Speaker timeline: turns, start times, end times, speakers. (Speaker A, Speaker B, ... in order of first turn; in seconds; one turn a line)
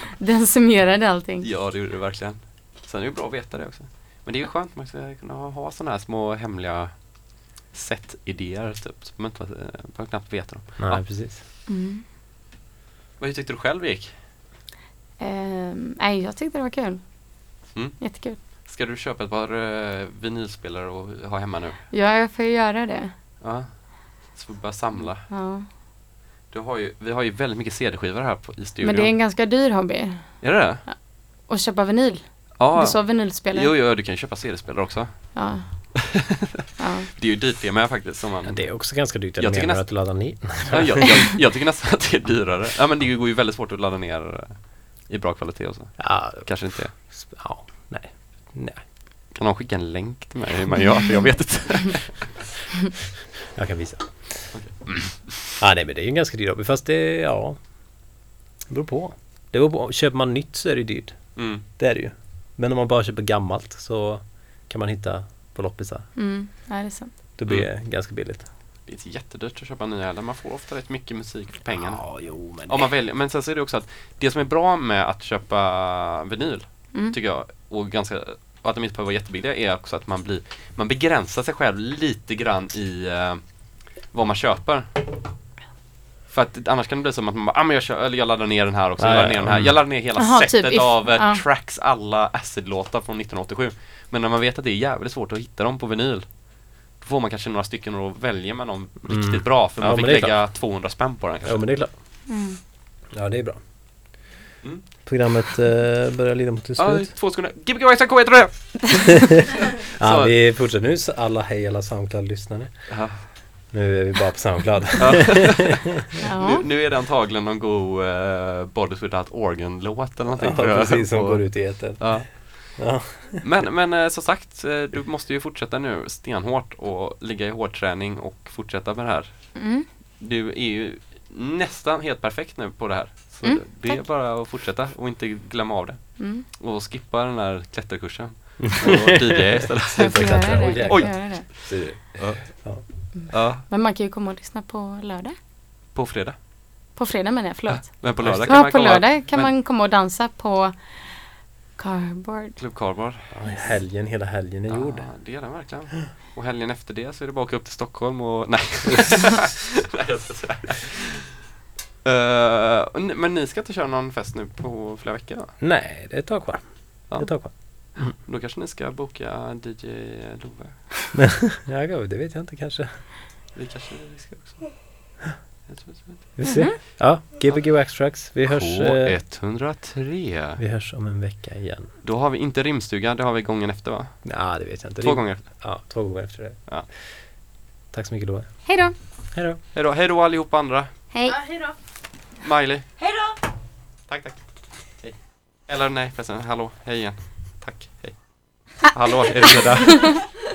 Speaker A: 0.2-1.5
Speaker B: 1.4-11.1
Speaker C: 10.8-11.4
Speaker A: 11.7-12.0
Speaker B: 13.2-14.2
Speaker A: 15.2-17.1
Speaker B: 17.7-21.8
Speaker A: 18.0-18.4
Speaker A: 21.9-23.1
Speaker B: 23.4-25.3
Speaker A: 25.3-25.6
Speaker B: 26.5-29.1
Speaker A: 28.8-33.7
Speaker B: 30.4-30.8
Speaker B: 32.6-36.1
Speaker A: 35.3-35.9
Speaker A: 36.8-37.1
Speaker B: 37.1-46.9
Speaker C: 38.5-41.2
Speaker C: 46.0-48.8
Speaker B: 49.3-52.3
Speaker C: 53.5-54.6
Speaker B: 54.5-55.5
Speaker C: 55.6-57.7
Speaker C: 58.7-66.1
Speaker B: 61.4-61.6
Speaker A: 66.2-67.2
Speaker C: 67.4-68.5
Speaker B: 68.8-84.9
Speaker C: 71.7-72.9
Speaker B: 86.3-101.7
Speaker C: 89.0-89.8
Speaker A: 90.2-91.4
Speaker C: 99.0-100.7
Speaker C: 101.4-101.9
Speaker A: 102.3-102.6
Speaker C: 103.1-103.6
Speaker B: 104.6-105.2
Speaker C: 105.0-107.1
Speaker B: 106.8-109.3
Speaker C: 109.8-115.7
Speaker B: 110.0-110.3
Speaker B: 112.9-113.2
Speaker B: 115.0-129.6
Speaker A: 116.2-116.6
Speaker C: 120.4-123.5
Speaker A: 129.6-129.8
Speaker B: 130.2-143.6
Speaker A: 133.4-134.0
Speaker A: 136.2-136.4
Speaker C: 138.6-142.8
Speaker A: 140.0-141.4
Speaker A: 143.1-145.3
Speaker B: 145.9-146.3
Speaker A: 146.9-152.6
Speaker B: 147.7-149.5
Speaker C: 148.2-148.6
Speaker B: 152.6-153.3
Speaker C: 153.3-155.2
Speaker B: 154.7-161.2
Speaker B: 162.0-165.6
Speaker C: 165.6-168.2
Speaker B: 167.1-171.1
Speaker C: 171.5-173.1
Speaker B: 173.5-174.8
Speaker B: 175.7-176.4
Speaker C: 176.3-179.2
Speaker A: 176.4-176.8
Speaker B: 177.5-180.6
Speaker C: 180.6-181.9
Speaker B: 182.0-185.8
Speaker C: 184.2-187.3
Speaker C: 187.9-189.6
Speaker A: 188.7-188.9
Speaker B: 189.7-190.9
Speaker A: 191.1-191.7
Speaker B: 192.4-192.9
Speaker B: 194.1-200.4